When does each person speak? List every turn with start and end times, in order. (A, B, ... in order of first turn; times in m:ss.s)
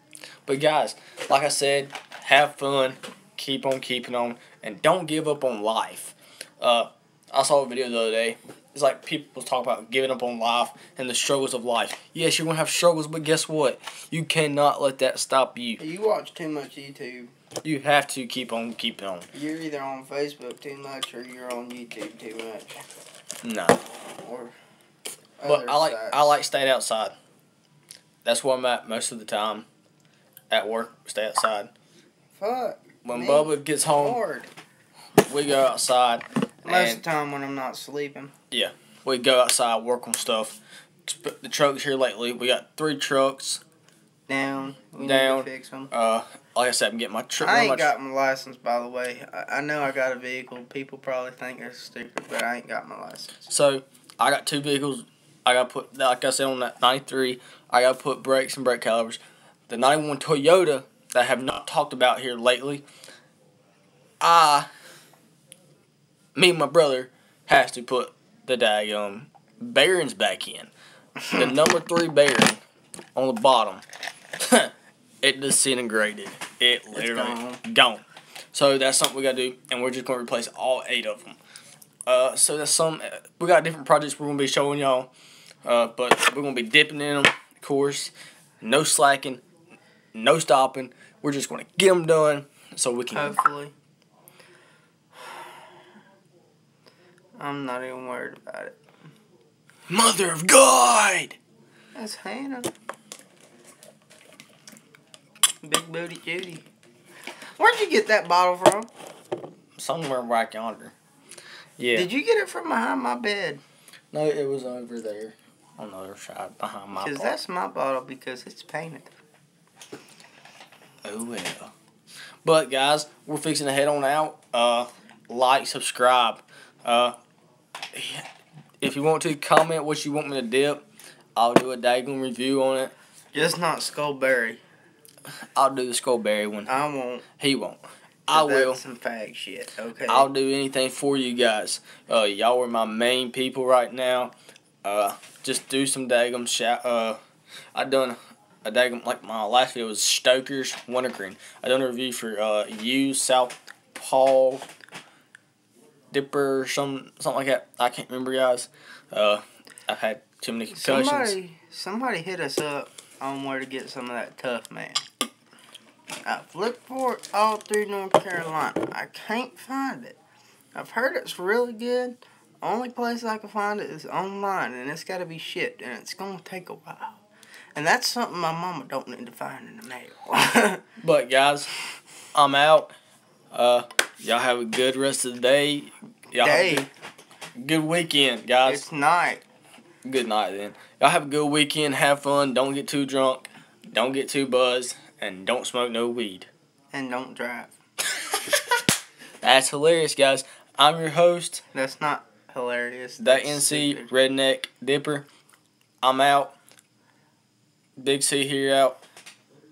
0:00.5-0:15.8 A
0:15.8-0:17.3 B
0:17.6-0:19.3 A
0:19.3-0:22.8 B
0:23.4-0:23.8 A
0:24.2-0:24.5 B
0:25.4-0:26.2 B
0:25.4-0:27.2 A
0:28.2-0:29.7 A
0:30.5-0:31.7 A
0:32.4-0:34.5 B
0:33.0-0:34.2 A
0:35.2-0:37.0 A
0:36.6-0:38.3 B
0:38.5-0:43.6 A
0:44.3-0:45.9 B
0:45.0-0:47.9 A
0:47.4-0:53.5 B
0:53.5-1:02.8 A
1:04.2-1:04.7 A
1:06.4-1:10.7 A
1:11.2-1:11.5 B
1:11.3-1:12.6 A
1:13.2-1:13.8 A
1:14.4-1:21.4 A
1:16.9-1:17.6 B
1:22.1-1:25.1 A
1:25.6-1:29.4 A
1:30.1-1:33.4 A
1:33.1-1:33.7 B
1:37.4-1:38.8 B
1:39.9-1:41.4 A
1:42.0-1:42.7 B
1:45.6-1:46.7 B
1:47.6-1:48.9 B
1:49.8-1:51.0 A
1:51.8-1:52.1 A
1:51.9-1:53.6 B
1:54.1-1:57.4 A
1:57.0-1:59.1 B
2:01.0-2:01.7 A
2:02.4-2:07.2 A
2:07.9-2:08.2 A
2:08.8-2:10.8 A
2:11.4-2:12.9 A
2:13.3-2:14.6 B
2:15.6-2:16.7 A
2:16.7-2:17.3 B
2:17.4-2:18.8 A
2:18.3-2:20.3 B
2:20.1-2:27.2 A
2:27.8-2:34.7 A
2:36.1-2:41.4 A
2:40.7-2:45.0 B
2:46.2-2:50.2 B
2:50.8-2:57.2 B
2:57.8-3:00.8 B
3:01.0-3:01.7 A
3:02.3-3:03.0 A
3:03.5-3:06.9 A
3:06.4-3:06.9 B
3:07.6-3:08.8 A
3:08.6-3:09.4 B
3:10.0-3:16.5 A
3:16.9-3:17.7 B
3:19.4-3:21.6 A
3:21.7-3:24.1 B
3:23.2-3:25.3 A
3:26.0-3:26.5 A
3:28.0-3:29.0 A